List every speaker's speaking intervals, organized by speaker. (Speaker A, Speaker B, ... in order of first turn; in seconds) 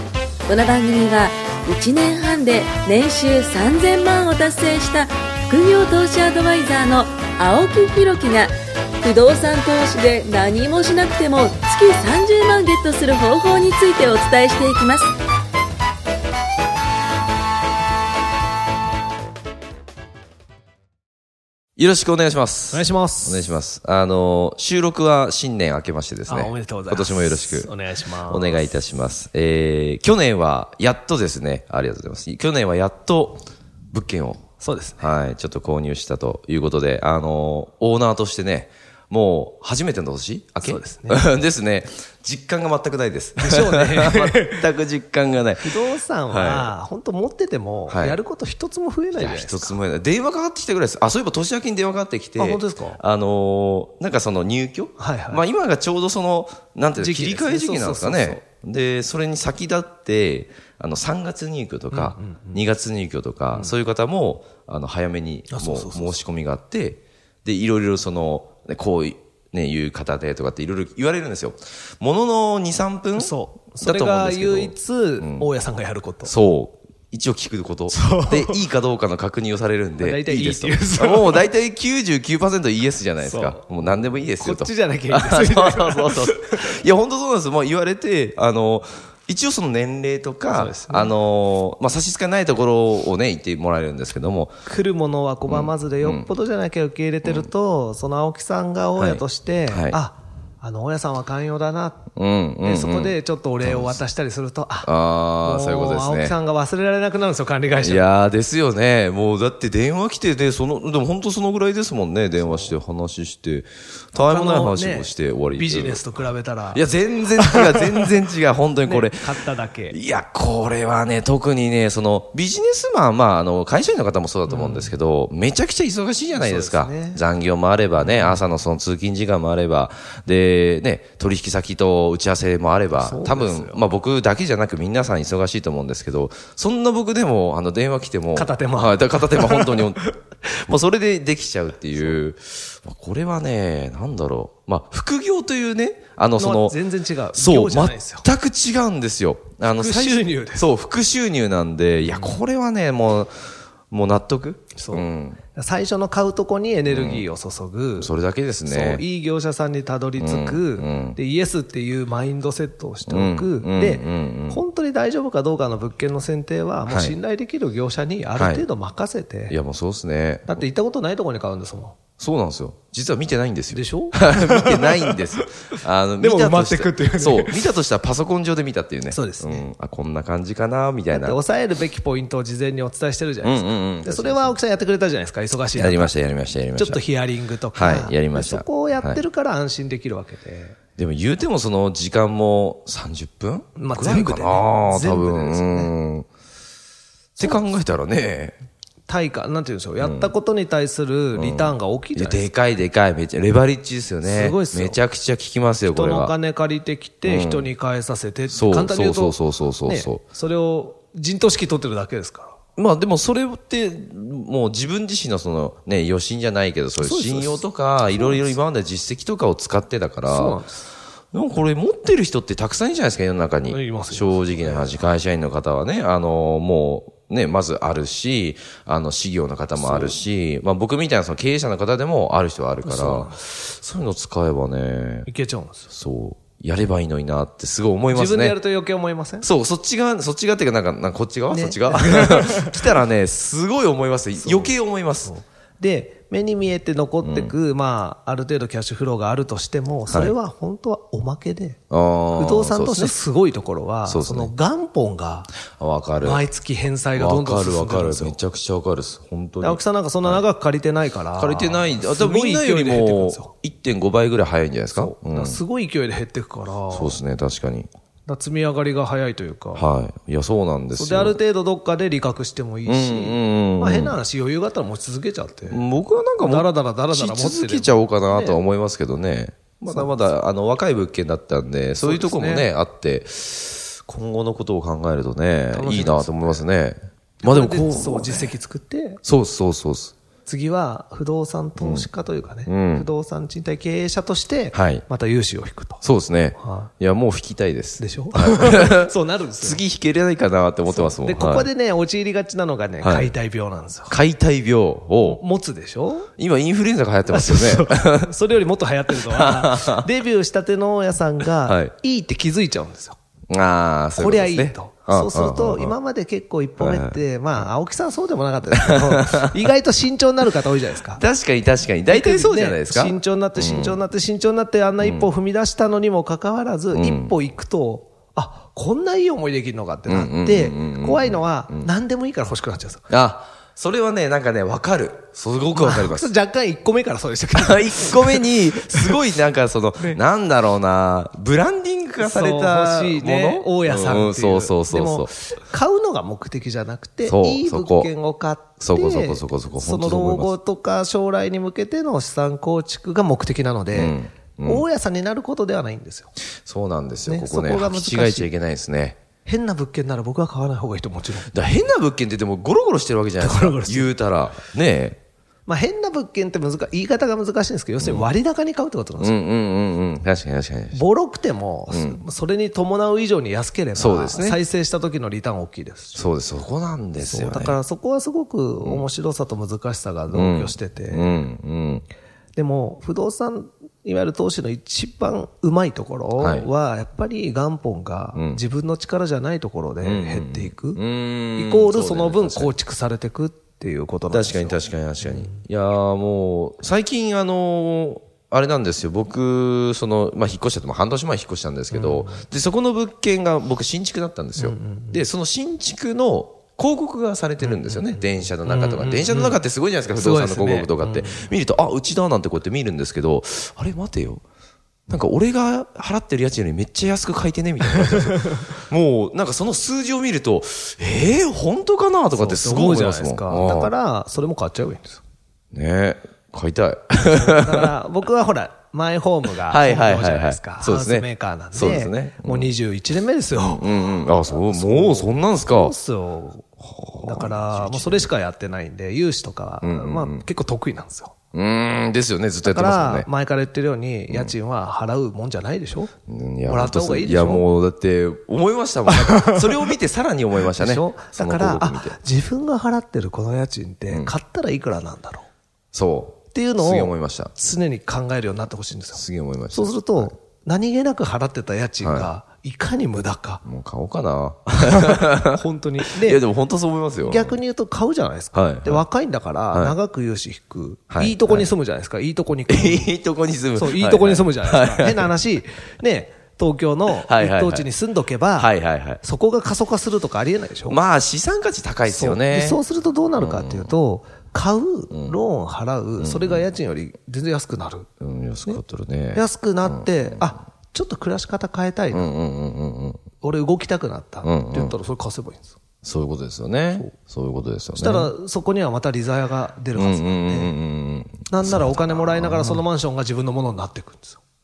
Speaker A: 0.5-15.1
Speaker B: 21.8-27.7, 28.2-34.4, 35.0-46.7, 47.9-48.2, 49.1-75.5, 76.2-94.5, 95.5-96.3, 97.2-97.5, 99.0-100.0, 102.2-104.0, 104.8-106.4, 107.8-116.0, 116.7-119.3, 119.9-146.8, 147.3-155.4, 156.9-157.2, 158.0-159.1, 160.2-161.2, 163.1-164.6, 166.9-167.2, 168.4-168.7, 169.5-170.6, 172.2-181.4, 183.4-184.6, 185.7-187.0, 187.7-189.2, 191.0-196.3, 197.4-198.6, 200.0-200.3, 201.3-206.3, 207.2-207.7, 208.5-210.2, 212.8-220.6, 221.3-235.3, 235.9-238.6, 239.4-245.3, 247.2-247.5, 251.9-253.2, 254.1-254.5, 255.8-256.4, 257.2-260.4, 261.4-265.6, 266.9-267.9, 269.7-271.4, 272.9-274.2, 275.7-288.5, 289.2-290.1, 291.8-292.1, 292.7-293.1, 294.7-295.1, 296.0-301.7, 303.0-303.3, 304.1-305.4, 306.4-308.3, 309.2-310.1, 311.6-311.9, 313.5-315.9, 316.8-317.2, 318.7-319.5, 321.2-324.0, 325.0-325.3, 326.9-327.4, 330.1-331.9, 333.1-336.3, 337.5-345.3, 347.2-348.1, 348.8-350.5, 353.9-354.9, 356.6-359.2, 361.5-365.2, 368.0-368.3, 369.2-371.0, 371.9-372.2, 373.9-374.6, 376.1-377.8, 380.3-382.1, 386.4-386.7, 388.3-388.6, 390.0-392.7, 394.3-414.4, 415.1-423.9, 425.7-427.9, 429.7-432.7, 433.6-435.9, 436.8-438.3, 439.8-440.4, 441.5-443.3, 446.3-452.2, 455.9-457.5, 459.1-460.3, 462.0-462.3, 463.6-465.6, 466.2-467.6, 468.5-469.1, 469.7-470.0, 471.1-471.7, 472.7-475.3, 477.1-477.9, 478.6-479.2, 480.9-482.8, 483.4-483.9, 485.1-485.4, 486.2-486.7, 488.2-490.4, 492.1-493.2, 494.4-494.9, 496.0-498.3, 499.9-502.8
Speaker C: 22.7-23.5, 26.3-28.6, 34.6-35.1, 40.6-41.2, 43.4-44.7, 45.6-49.8, 52.4-53.0, 55.0-55.4, 57.0-58.4, 61.9-62.6, 65.5-66.2, 73.2-76.3, 77.9-78.6, 80.0-81.5, 83.2-86.6, 90.5-91.2, 94.7-102.1, 102.6-108.1, 112.4-112.8, 114.2-116.8, 117.4-118.1, 118.8-120.0, 124.5-124.9, 126.3-127.2, 128.0-128.4, 133.0-133.8, 138.3-139.9, 146.4-148.3, 149.7-150.7, 152.0-152.4, 154.8-158.1, 158.7-169.6, 170.5-172.0, 173.7-175.2, 176.2-177.7, 179.1-179.7, 181.1-186.2, 186.7-190.8, 193.8-195.9, 197.4-197.7, 199.1-202.4, 204.2-205.0, 205.9-212.6, 217.0-218.6, 220.3-220.8, 223.7-224.9, 229.8-230.2, 232.8-233.3, 235.3-235.9, 238.1-239.5, 241.5-242.9, 244.4-251.8, 252.3-255.6, 256.2-258.4, 259.6-263.5, 264.9-267.2, 268.3-269.9, 270.9-275.8, 276.4-278.6, 279.9-280.2, 282.0-282.7, 285.7-286.6, 287.4-289.2, 290.5-296.0, 296.6-296.9, 298.0-299.8, 300.9-304.1, 305.3-306.3, 307.3-313.2, 314.2-321.2, 322.1-333.1, 335.8-339.2, 342.2-356.3, 357.3-358.5, 359.4-361.5, 363.4-364.1, 365.7-369.4, 370.9-376.3, 377.2-381.5, 382.6-391.0, 391.6-395.6, 401.9-402.4, 404.6-405.2, 407.6-409.6, 410.1-411.5, 417.9-418.3, 422.3-425.2, 427.3-436.7, 437.2-441.3, 442.6-446.1, 446.7-447.7, 449.1-449.9, 450.7-455.5, 456.5-463.6, 464.8-466.5, 467.2-473.1, 473.8-481.0, 482.1-488.1, 489.3-492.3, 493.4-495.8, 497.9-500.8, 501.5-504.4